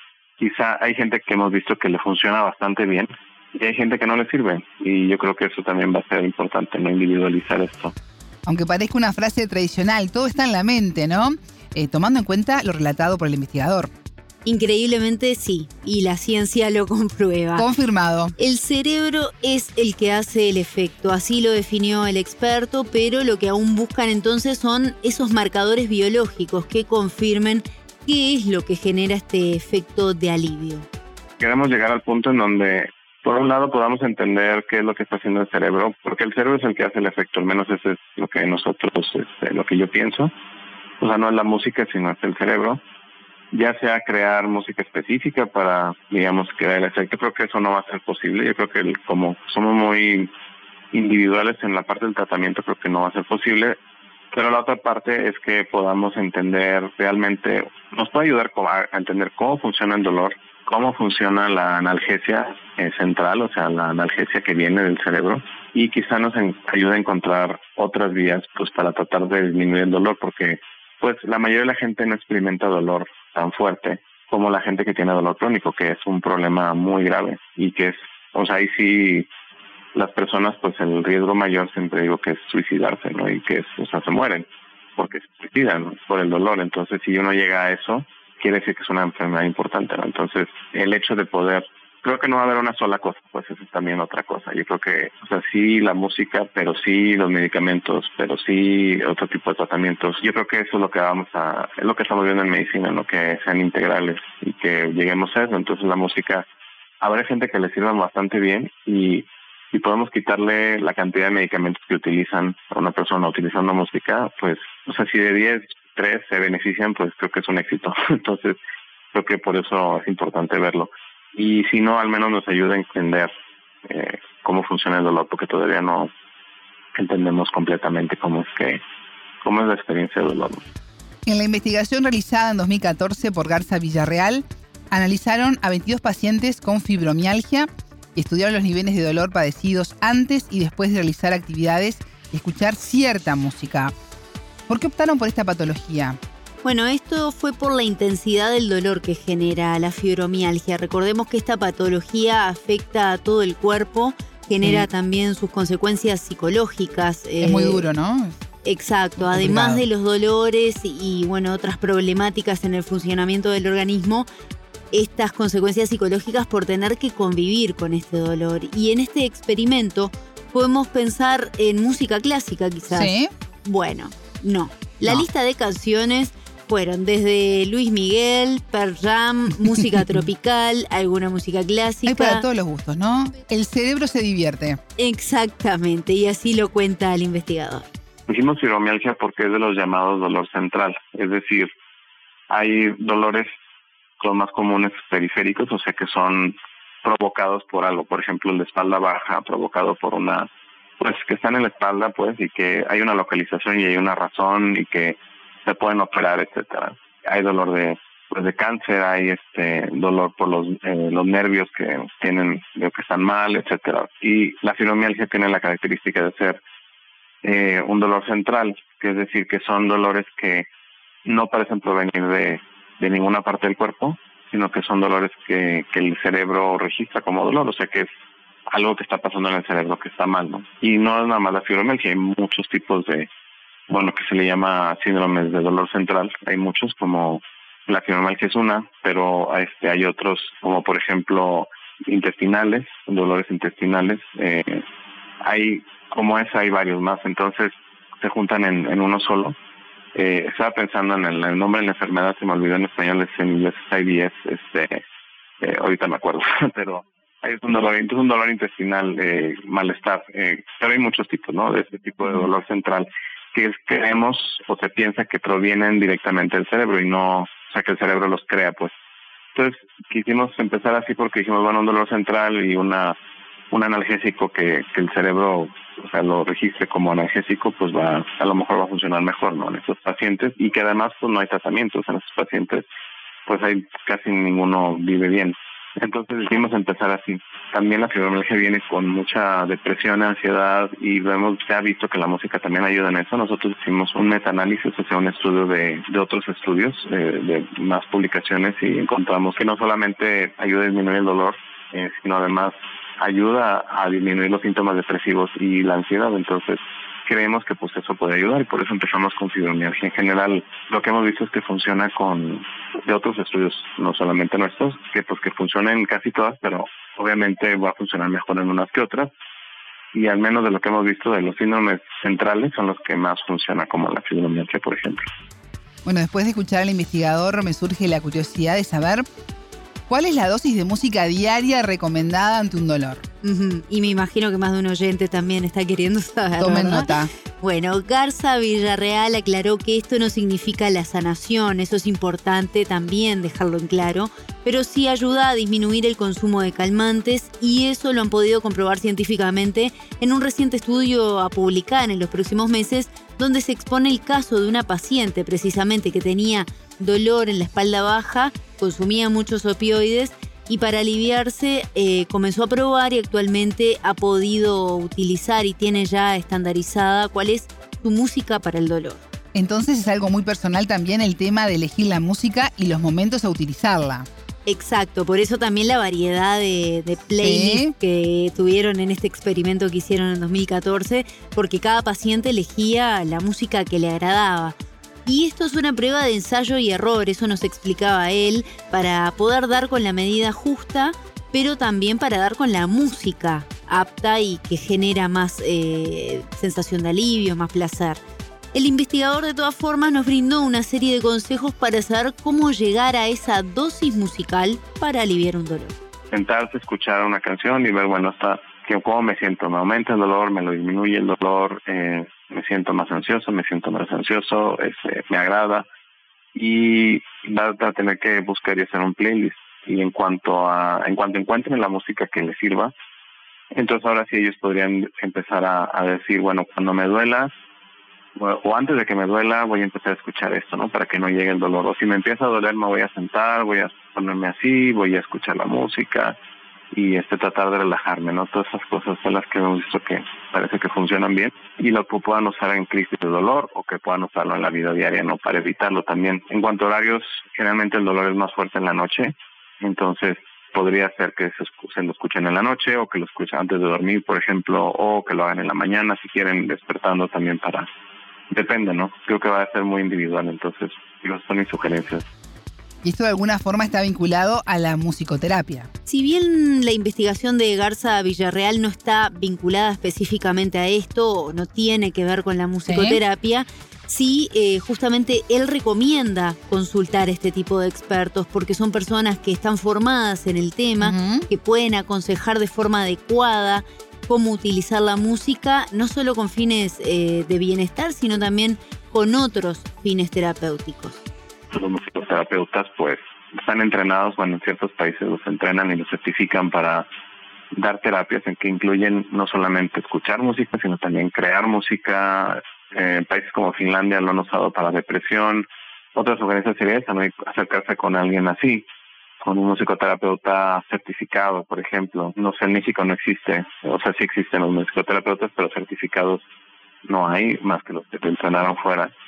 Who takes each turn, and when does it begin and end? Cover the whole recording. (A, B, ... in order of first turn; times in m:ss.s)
0:00.4-0:07.9 A
0:08.4-0:13.9 B
0:14.4-0:17.6 C
0:17.6-0:18.3 B
0:18.4-0:30.9 C
0:31.4-0:40.3 A
0:41.0-0:42.8 A
0:43.5-0:50.3 A
0:50.9-0:53.8 A
0:54.3-1:19.3 A
1:19.9-1:46.4 A
1:47.0-1:58.6 A
1:59.1-2:03.3 A
2:03.9-2:06.1 A
2:06.9-2:08.8 A
2:09.4-2:10.6 A
2:11.2-2:23.9 B
2:24.7-2:26.2 B
2:26.6-2:37.9 C
2:34.6-2:34.9 B
2:37.4-2:38.4 B
2:38.6-2:44.3 C
2:39.2-2:39.8 B
2:44.9-3:02.4 C
2:52.9-2:53.3 B
3:02.0-3:04.8 B
3:05.0-3:07.9 C
3:08.3-3:11.7 A
3:12.5-3:13.5 A
3:14.2-3:20.5 A
3:21.0-3:36.6 A
3:37.4-3:40.7 A
3:41.2-3:48.1 A
3:48.7-3:53.3 A
3:53.9-4:04.8 A
4:05.4-4:09.6 A
4:10.1-4:15.0 A
4:15.6-4:28.9 A
4:29.5-4:33.2 A
4:33.7-4:42.8 A
4:43.5-5:19.3 A
5:20.1-5:25.2 A
5:26.0-5:29.2 B
5:30.1-5:33.2 B
5:33.4-6:09.2 C
5:36.6-5:37.3 B
6:09.5-6:14.3 B
6:14.6-6:38.2 C
6:17.4-6:17.9 B
6:38.7-6:46.0 C
6:46.3-6:55.9 A
6:56.5-7:02.9 A
7:03.7-7:07.5 A
7:08.4-7:16.4 A
7:16.9-7:37.9 A
7:38.5-7:42.2 A
7:43.0-7:45.9 B
7:46.0-8:11.2 C
7:52.8-7:53.2 B
8:01.0-8:01.5 B
8:11.7-8:17.1 A
8:17.7-8:28.8 A
8:29.4-8:36.4 A
8:37.0-8:39.1 A